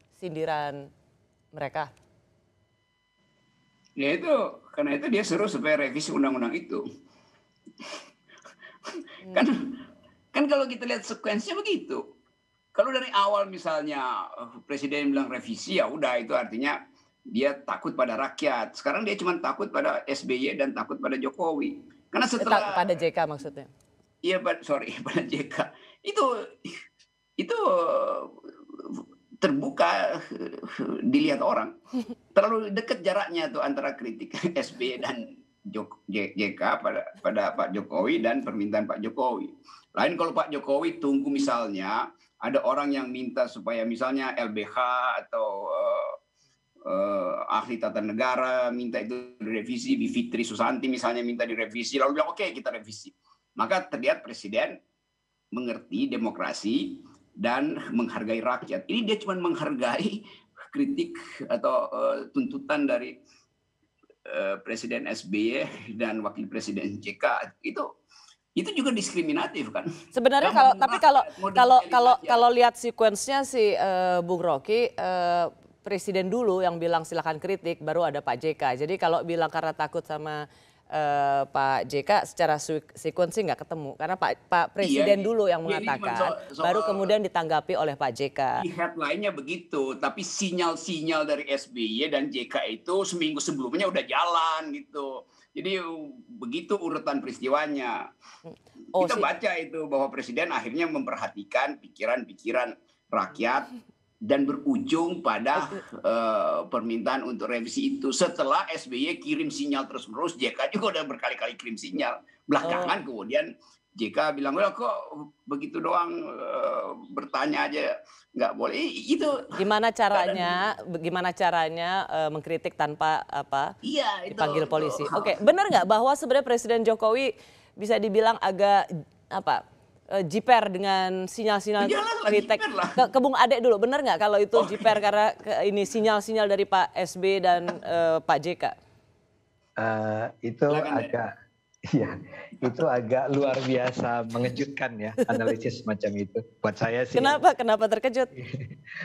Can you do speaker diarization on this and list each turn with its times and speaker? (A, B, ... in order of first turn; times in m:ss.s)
0:00.2-0:00.9 A
0:01.5-0:01.9 A
0:04.0-0:06.8 B
0:08.9-0:09.7 B
0:10.3-0:12.0 B
0:12.7-0:16.8 B
0:17.3-0:22.8 B
0:22.4-0:23.7 A
0:24.2-0:26.8 B
0:27.4-0:31.7 B
0:32.3-0:46.1 B
0:46.8-0:54.8 B
0:55.5-1:00.2 B
1:00.7-1:03.2 B
1:04.3-1:07.9 B
1:08.6-1:09.9 B
1:10.1-1:28.6 A
1:10.4-1:12.5 B
1:24.8-1:27.1 B
1:28.6-1:38.0 B
1:38.4-1:39.3 A
1:39.0-1:43.7 B
1:44.3-1:59.4 B
1:52.6-1:52.9 A
1:59.6-2:03.7 A
2:00.1-2:00.6 B
2:03.8-2:05.4 B
2:04.3-2:18.7 A
2:11.8-2:13.0 B
2:14.5-2:15.0 B
2:19.8-2:21.3 C
2:20.7-2:21.1 B
2:21.9-2:27.4 C
2:27.1-2:28.3 A
2:28.3-2:28.8 C